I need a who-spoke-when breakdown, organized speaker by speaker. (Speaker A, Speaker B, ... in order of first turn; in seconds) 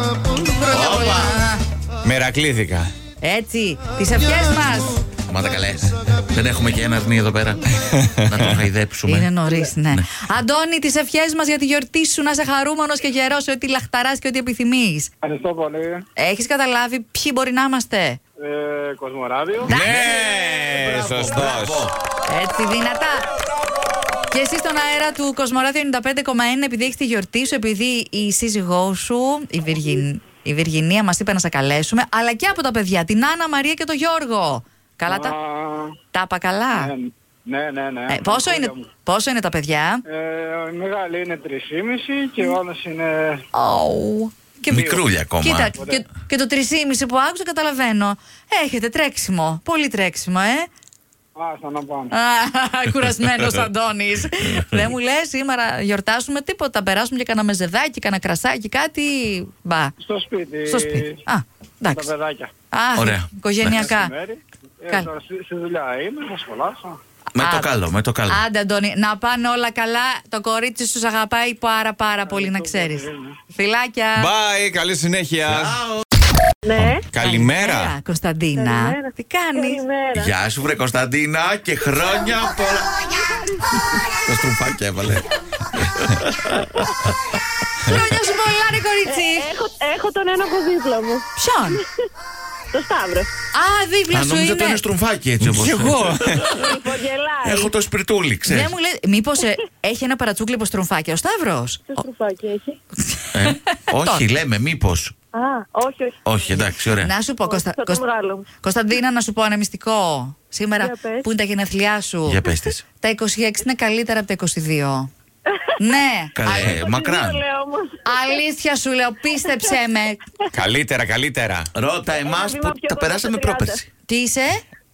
Speaker A: 0.4-1.6, 3.2-5.0, 9.0-15.1, 16.2-18.2, 22.3-23.3, 24.3-35.4, 36.1-36.9, 38.1-40.0, 43.5-50.7, 52.1-59.9, 60.7-62.1, 62.7-64.1, 67.4-67.7, 68.3-74.3, 77.2-79.8, 87.8-89.5, 91.3-91.8, 93.5-94.8, 98.5-102.0, 103.0-104.2, 107.0-108.0, 108.6-112.4, 113.0-115.1, 115.8-116.8, 118.0-120.2, 124.1-124.6
Speaker B: 0.7-1.4, 5.3-7.7, 8.2-9.3, 9.9-10.2, 19.7-21.9, 44.7-45.7, 63.0-63.8, 67.3-68.4, 75.5-76.0, 80.1-82.9, 84.1-86.9, 94.1-96.6, 97.4-98.7, 103.3-105.1, 106.2-107.1, 112.2-112.8, 116.3-117.4, 121.8-123.8
Speaker C: 2.0-2.9, 7.9-8.6, 19.7-21.9, 74.2-75.8, 77.0-77.9, 95.4-96.6, 120.5-121.7
Speaker D: 15.2-16.0, 18.4-19.7, 35.1-36.0, 36.7-38.9, 40.1-43.4, 51.4-52.1, 60.0-61.2, 61.9-62.5, 63.6-67.0, 72.3-73.3
Speaker E: 76.6-77.0, 78.6-80.3, 83.2-84.0, 89.0-91.8, 92.7-93.3, 96.5-97.7, 101.9-102.8, 105.3-106.6, 107.4-108.5, 110.8-111.3, 115.5-116.0, 116.6-118.4, 119.3-119.8, 122.1-123.8